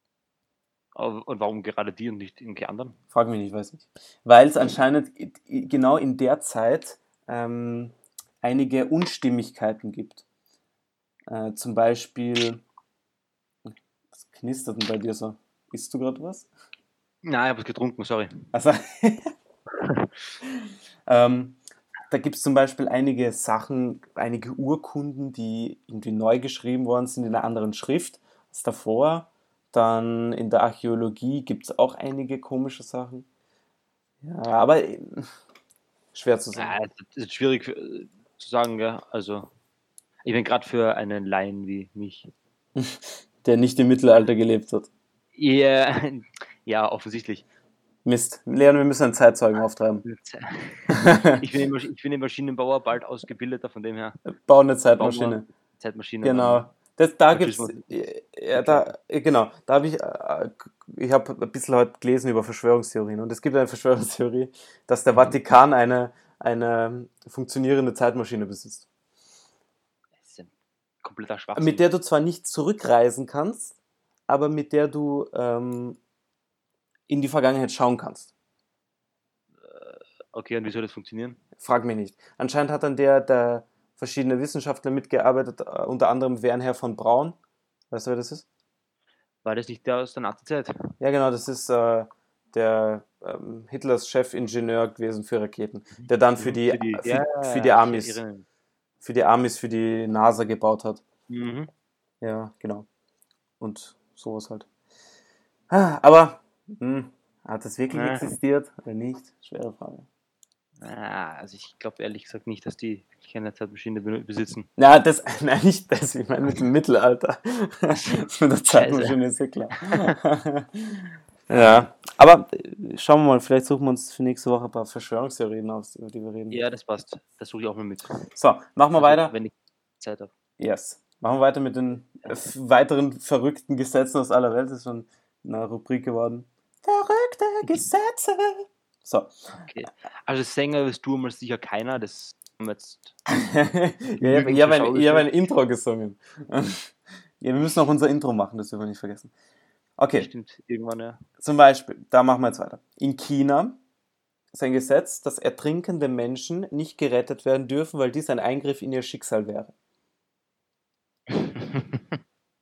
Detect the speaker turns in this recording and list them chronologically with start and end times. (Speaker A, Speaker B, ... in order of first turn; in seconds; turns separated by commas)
Speaker A: 0.9-3.0, Speaker B: 3.1-10.2, Speaker B: 11.3-12.6, Speaker B: 14.1-16.5, Speaker A: 17.2-18.4, Speaker B: 18.5-19.3, Speaker A: 19.8-20.1, Speaker B: 20.4-33.2, Speaker B: 34.2-35.3, Speaker B: 36.1-36.7, Speaker A: 36.5-39.5, Speaker A: 40.2-42.3, Speaker B: 42.8-44.9, Speaker A: 45.3-47.4, Speaker B: 48.0-50.0, Speaker A: 50.0-54.2, Speaker B: 50.9-51.4, Speaker B: 54.4-55.4, Speaker A: 55.0-56.7, Speaker B: 56.2-68.9, Speaker A: 57.3-58.9, Speaker A: 70.2-70.5, Speaker A: 71.0-71.8, Speaker B: 71.5-73.8, Speaker B: 74.3-76.0, Speaker B: 77.1-78.3, Speaker A: 79.6-81.4, Speaker B: 81.6-87.4, Speaker B: 87.9-88.5, Speaker A: 89.4-90.9, Speaker B: 91.0-98.2, Speaker A: 95.9-98.5, Speaker B: 99.0-101.0, Speaker A: 101.3-101.7, Speaker B: 102.2-102.9, Speaker B: 103.6-104.7, Speaker B: 105.7-110.1, Speaker A: 107.9-108.3, Speaker A: 110.8-114.7, Speaker B: 114.8-126.6, Speaker A: 118.7-119.2, Speaker A: 119.7-120.1, Speaker A: 121.5-121.9, Speaker A: 126.5-128.2, Speaker B: 128.3-129.3, Speaker A: 129.0-130.3, Speaker B: 130.6-139.6, Speaker A: 139.7-143.2, Speaker B: 143.3-149.3, Speaker A: 144.2-145.3, Speaker B: 150.0-150.3, Speaker A: 150.2-151.2, Speaker B: 151.4-153.8, Speaker B: 154.5-159.7, Speaker A: 161.3-162.0